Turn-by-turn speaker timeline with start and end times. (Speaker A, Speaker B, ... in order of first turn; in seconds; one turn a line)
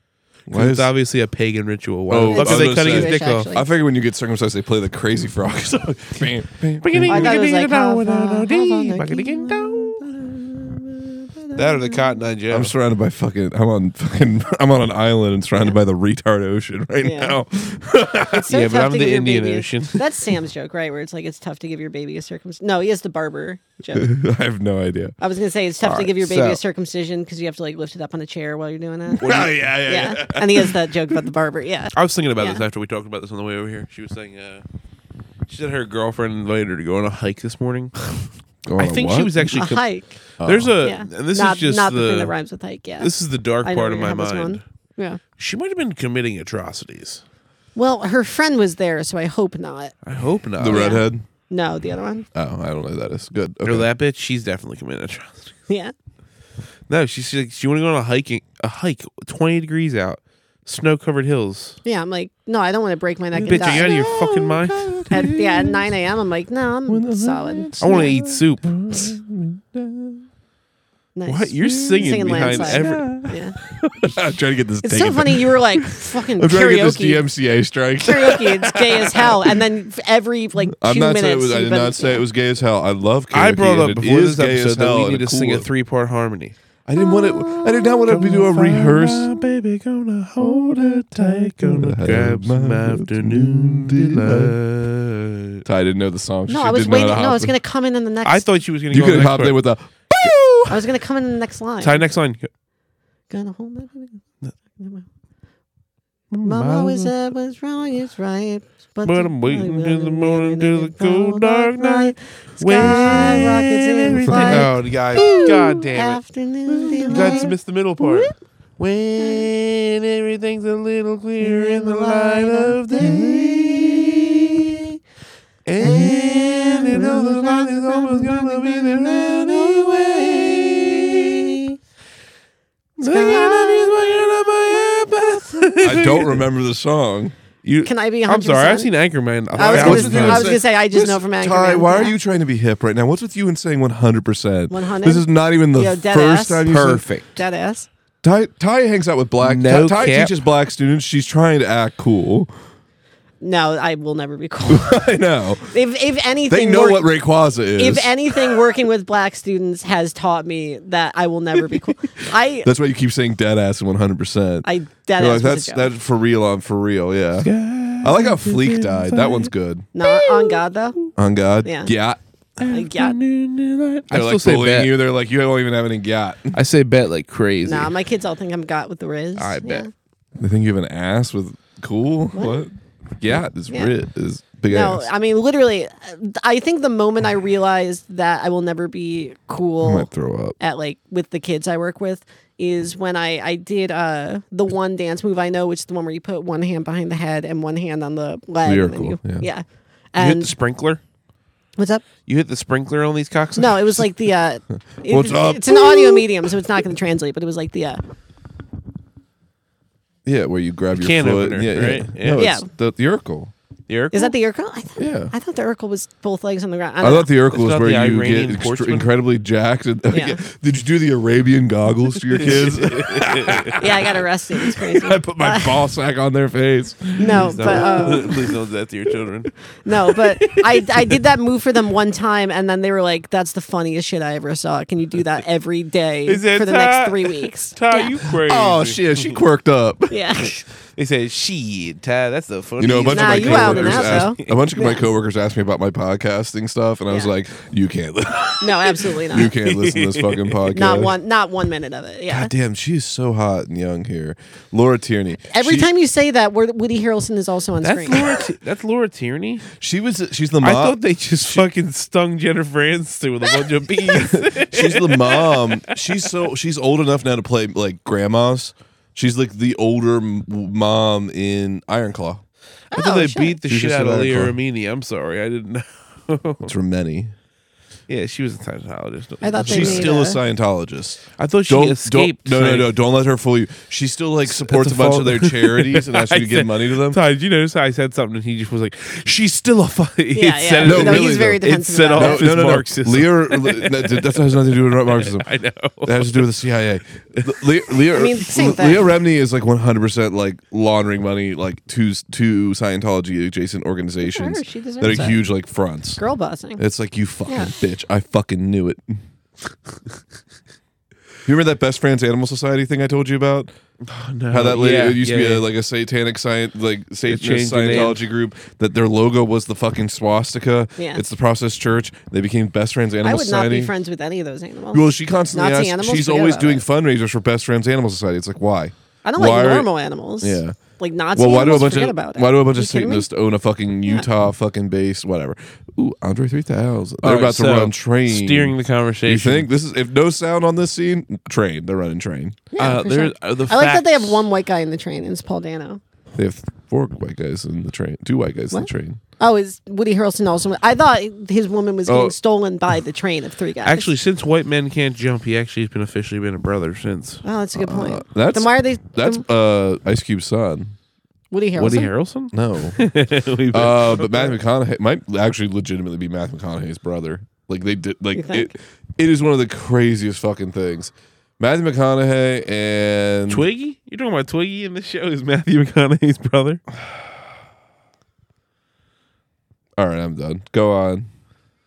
Speaker A: 0.5-0.9
Speaker B: 0.5-3.5
Speaker A: 2.1-7.4
Speaker C: 2.3-3.6
Speaker B: 6.8-10.0
Speaker C: 7.1-12.2
Speaker B: 11.5-12.7
Speaker A: 12.5-18.5
Speaker C: 17.0-17.4
Speaker C: 18.3-24.1
Speaker B: 18.4-20.2
Speaker A: 23.9-25.2
Speaker C: 25.2-32.6
Speaker B: 25.8-26.6
Speaker B: 29.2-30.2
Speaker A: 29.2-31.1
Speaker B: 31.9-34.6
Speaker B: 35.5-38.2
Speaker A: 38.6-39.5
Speaker B: 38.8-39.9
Speaker C: 39.5-40.1
Speaker B: 40.4-42.3
Speaker A: 40.4-40.7
Speaker C: 40.8-43.1
Speaker B: 43.0-44.6
Speaker C: 43.6-45.2
Speaker B: 45.4-47.2
Speaker C: 47.8-49.9
Speaker B: 50.0-51.0
Speaker A: 50.6-51.2
Speaker C: 50.7-52.3
Speaker A: 52.3-53.9
Speaker B: 53.6-55.5
Speaker B: 56.9-61.8
Speaker C: 61.8-64.1
Speaker A: 63.4-65.9
Speaker B: 63.4-65.1
Speaker C: 65.1-68.1
Speaker A: 66.9-70.2
Speaker B: 67.8-69.0
Speaker C: 71.1-73.5
Speaker B: 71.2-74.2
Speaker A: 71.9-73.4
Speaker A: 74.0-79.6
Speaker C: 74.8-77.2
Speaker C: 78.0-82.2
Speaker A: 80.8-85.7
Speaker B: 83.3-86.5
Speaker A: 86.9-89.3
Speaker B: 88.0-95.6
Speaker A: 90.4-94.5
Speaker A: 95.6-97.5
Speaker C: 96.5-98.4
Speaker B: 98.2-99.6
Speaker A: 98.9-100.8
Speaker C: 100.7-102.0
Speaker B: 101.8-102.5
Speaker C: 103.3-105.0
Speaker B: 106.3-107.1
Speaker C: 106.4-118.3
Speaker B: 109.0-116.2
Speaker A: 112.8-113.7
Speaker A: 114.2-114.7
Speaker A: 116.9-117.4
Speaker B: 117.0-124.7
Speaker C: 119.2-119.5
Speaker C: 121.4-125.0
Speaker B: 125.6-131.3
Speaker C: 125.8-131.8
Speaker C: 133.0-134.1
Speaker B: 133.0-136.4
Speaker C: 134.7-135.9
Speaker A: 135.8-137.3
Speaker B: 137.6-140.5
Speaker C: 137.8-138.9
Speaker C: 139.5-142.1
Speaker A: 139.6-147.1
Speaker C: 144.7-146.7
Speaker B: 146.7-147.3
Speaker C: 147.3-147.9
Speaker A: 148.2-152.5
Speaker B: 149.4-150.3
Speaker C: 153.4-155.0
Speaker A: 154.7-155.7
Speaker C: 155.7-157.1
Speaker A: 156.5-158.5
Speaker C: 157.8-162.7
Speaker A: 162.6-169.9
Speaker C: 164.6-165.9
Speaker B: 167.4-169.5
Speaker C: 169.9-171.0
Speaker B: 170.0-171.1
Speaker A: 171.2-172.2
Speaker C: 171.6-171.9
Speaker C: 172.6-173.2
Speaker B: 172.6-174.9
Speaker A: 174.1-176.6
Speaker B: 176.5-177.9
Speaker C: 177.6-179.9
Speaker B: 179.4-179.9
Speaker A: 180.4-185.1
Speaker C: 182.3-182.6
Speaker C: 184.7-200.5
Speaker A: 189.8-190.6
Speaker A: 198.6-199.5
Speaker B: 200.2-201.0
Speaker C: 201.8-202.1
Speaker B: 202.2-204.1
Speaker C: 203.6-208.0
Speaker A: 205.1-206.3
Speaker A: 210.2-213.5
Speaker B: 210.9-212.5
Speaker C: 212.4-212.7
Speaker B: 213.9-214.3
Speaker C: 214.1-217.3
Speaker A: 215.0-215.3
Speaker A: 217.0-228.5
Speaker B: 217.5-219.1
Speaker C: 220.1-220.4
Speaker B: 222.3-224.1
Speaker C: 223.8-225.8
Speaker C: 227.2-228.3
Speaker B: 227.3-229.5
Speaker C: 229.8-238.2
Speaker B: 230.2-231.2
Speaker B: 236.3-239.4
Speaker A: 238.3-240.4
Speaker C: 240.1-240.6
Speaker B: 240.9-244.6
Speaker A: 242.8-251.1
Speaker C: 243.1-245.1
Speaker C: 248.6-249.5
Speaker B: 249.4-250.6
Speaker C: 250.7-252.5
Speaker A: 252.3-255.9
Speaker C: 255.5-258.3
Speaker B: 257.8-259.7
Speaker A: 259.7-261.6
Speaker B: 260.6-266.0
Speaker A: 264.1-272.4
Speaker C: 272.9-273.6
Speaker B: 272.9-276.7
Speaker A: 273.7-274.6
Speaker A: 276.6-277.3
Speaker B: 278.1-280.1
Speaker C: 279.4-280.4
Speaker A: 279.6-287.2
Speaker B: 281.4-282.9
Speaker B: 284.5-296.4
Speaker C: 290.3-292.5
Speaker A: 290.8-291.6
Speaker A: 292.1-295.4
Speaker A: 296.0-306.2
Speaker C: 298.1-299.1
Speaker C: 304.2-305.4
Speaker C: 306.2-306.8
Speaker A: 306.8-309.2
Speaker C: 307.5-307.7
Speaker A: 311.4-313.7
Speaker B: 314.0-315.6
Speaker A: 314.5-323.9
Speaker B: 317.2-318.2
Speaker C: 321.0-321.2
Speaker C: 323.2-326.8
Speaker A: 324.9-329.9
Speaker C: 329.2-333.3
Speaker A: 330.4-330.8
Speaker A: 331.3-338.7
Speaker B: 337.2-339.7
Speaker A: 339.2-342.9
Speaker B: 342.8-344.4
Speaker C: 342.8-346.0
Speaker A: 346.4-349.2
Speaker C: 348.7-354.1
Speaker A: 352.1-352.4
Speaker B: 353.8-357.4
Speaker C: 357.4-359.4
Speaker A: 357.8-360.9
Speaker C: 361.5-362.1
Speaker B: 361.7-364.6
Speaker A: 362.5-363.0
Speaker A: 363.7-373.6
Speaker C: 368.3-368.7
Speaker B: 373.5-376.8
Speaker A: 377.0-377.3
Speaker A: 380.0-381.3